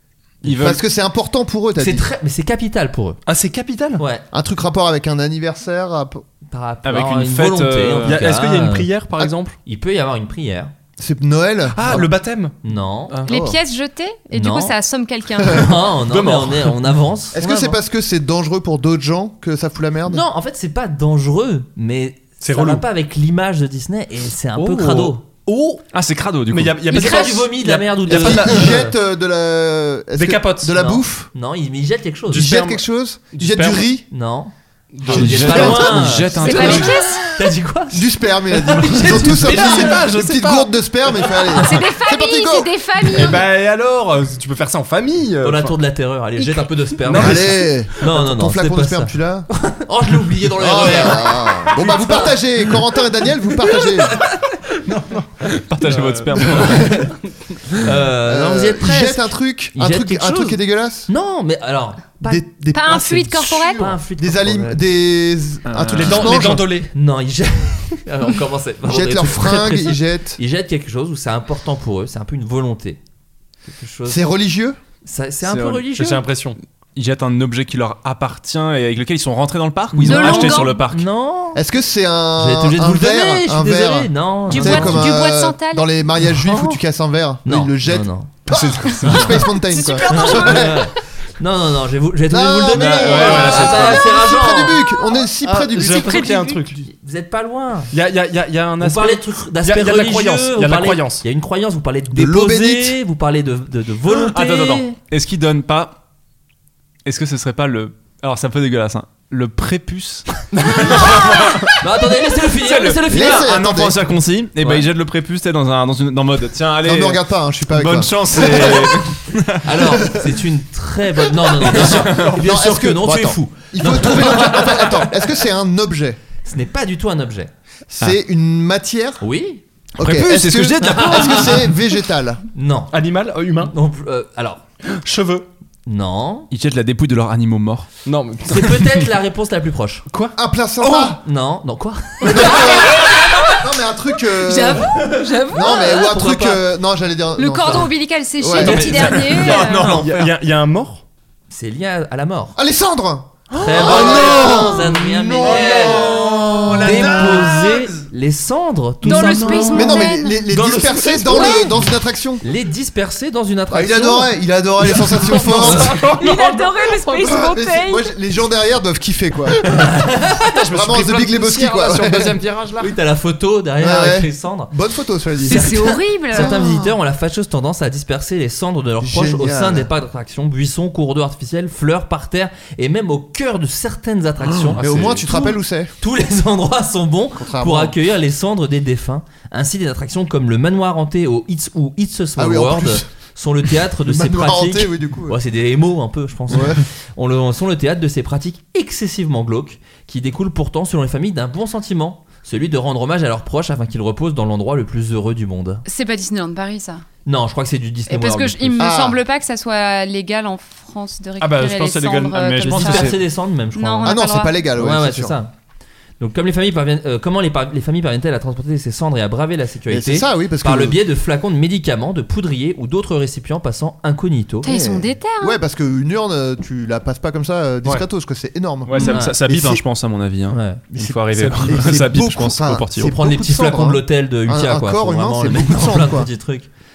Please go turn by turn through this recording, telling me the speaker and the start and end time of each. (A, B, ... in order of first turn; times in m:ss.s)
0:00.4-0:00.8 A
0:00.4-0:02.1 B
0:01.8-0:03.2 C
0:03.2-0:04.0 D
0:04.0-0:04.2 C
0:04.3-0:06.2 B
0:06.5-0:08.9 C
0:06.8-0:08.2 A
0:08.0-0:09.6 D
0:09.6-0:10.7 C
0:11.0-0:12.1 B
0:11.7-0:12.5 D
0:12.6-0:13.2 C
0:13.3-0:13.6 B
0:13.3-0:15.7 E
0:14.3-0:14.7 C
0:15.4-0:17.8 C
0:15.9-0:16.8 D
0:17.3-0:20.2 B
0:20.1-0:25.2 C
0:22.4-0:22.8 D
0:24.5-0:25.8 D
0:25.9-0:26.8 A
0:26.5-0:28.8 D
0:26.9-0:28.9 C
0:28.1-0:31.3 B
0:30.1-0:30.9 D
0:30.7-0:32.5 C
0:32.3-0:33.9 D
0:32.3-0:34.0 B
0:34.1-0:34.5 C
0:34.9-0:35.8 D
0:35.0-0:40.1 C
0:35.0-0:36.3 B
0:35.0-0:37.0 A
0:36.4-0:37.3 E
0:37.9-0:43.4 B
0:38.9-0:41.3 D
0:41.6-0:43.4 E
0:43.1-0:45.8 D
0:45.4-0:52.3 C
0:47.0-0:47.8 D
0:47.1-0:49.5 B
0:50.6-0:54.2 B
0:55.4-0:56.9 A
0:55.8-0:56.9 D
0:56.6-0:57.1 C
0:57.7-1:02.4 C
0:58.2-1:01.1 B
1:02.2-1:06.7 B
1:02.7-1:03.9 E
1:03.7-1:04.8 C
1:05.6-1:06.5 A
1:05.9-1:06.9 D
1:06.9-1:13.0 C
1:08.8-1:10.4 B
1:13.7-1:14.2 C
1:14.0-1:14.8 B
1:15.0-1:16.2 C
1:15.4-1:15.8 A
1:15.9-1:16.6 D
1:17.0-1:21.1 A
1:19.9-1:21.6 C
1:20.0-1:20.8 E
1:21.5-1:30.8 B
1:22.4-1:25.0 C
1:24.5-1:25.9 E
1:26.2-1:26.8 C
1:27.4-1:28.4 C
1:28.5-1:29.3 A
1:29.0-1:29.4 C
1:29.5-1:30.7 E
1:30.0-1:34.8 C
1:32.3-1:36.4 B
1:32.7-1:34.2 A
1:33.3-1:33.6 D
1:35.4-1:36.8 D
1:36.2-1:36.5 E
1:36.7-1:37.9 C
1:37.9-1:41.2 D
1:38.8-1:44.9 C
1:42.1-1:43.0 B
1:44.3-1:44.8 D
1:44.3-1:46.0 A
1:47.0-1:51.7 A
1:50.7-1:53.5 C
1:52.6-1:59.8 A
1:53.0-1:54.1 B
1:56.8-1:59.0 B
1:59.6-2:05.0 C
2:00.0-2:00.2 B
2:01.6-2:06.2 B
2:01.8-2:02.3 A
2:06.4-2:07.5 C
2:07.9-2:09.2 B
2:09.2-2:09.6 C
2:10.0-2:12.4 B
2:10.0-2:11.7 A
2:11.0-2:11.4 C
2:12.5-2:12.9 C
2:12.9-2:13.7 D
2:13.6-2:14.6 C
2:14.9-2:15.5 D
2:15.8-2:16.5 C
2:16.5-2:17.9 A
2:18.0-2:18.9 D
2:18.5-2:20.1 C
2:20.1-2:21.1 D
2:20.4-2:21.2 B
2:20.9-2:22.7 C
2:22.2-2:29.0 B
2:24.3-2:26.1 E
2:24.9-2:26.6 C
2:27.4-2:30.0 E
2:28.5-2:31.0 D
2:29.3-2:30.3 A
2:31.5-2:32.6 C
2:32.6-2:37.2 B
2:33.6-2:41.8 C
2:33.6-2:34.7 D
2:35.4-2:37.9 A
2:35.4-2:37.6 D
2:39.0-2:40.4 E
2:39.0-2:39.8 D
2:39.7-2:42.4 B
2:40.6-2:41.4 D
2:42.4-2:44.3 C
2:43.7-2:46.0 B
2:45.0-2:47.4 D
2:45.2-2:45.9 C
2:45.9-2:48.1 E
2:47.2-2:49.7 B
2:49.8-2:50.4 C
2:50.3-2:53.0 D
2:50.7-2:52.4 B
2:52.8-2:54.7 C
2:53.8-2:55.8 B
2:55.4-2:56.6 E
2:55.4-3:25.8 C
2:56.3-2:57.0 B
2:59.0-2:59.9 B
3:04.7-3:05.4 D
3:04.8-3:05.9 B
3:07.4-3:08.0 B
3:12.4-3:13.1 B
3:14.0-3:15.4 B
3:16.5-3:16.8 B
3:25.8-3:27.0 E
3:27.2-3:28.9 C
3:28.1-3:33.1 E
3:28.8-3:29.2 B
3:31.4-3:33.2 D
3:32.3-3:33.2 A
3:32.6-3:35.5 C
3:33.7-3:34.6 E
3:34.0-3:35.4 B
3:36.2-3:44.7 C
3:39.9-3:41.0 B
3:44.6-3:45.6 E
3:44.6-3:49.8 B
3:48.8-3:52.8 A
3:49.0-3:49.4 C
3:50.5-3:50.8 C
3:50.9-3:56.3 B
3:51.4-3:53.1 D
3:53.0-3:56.7 C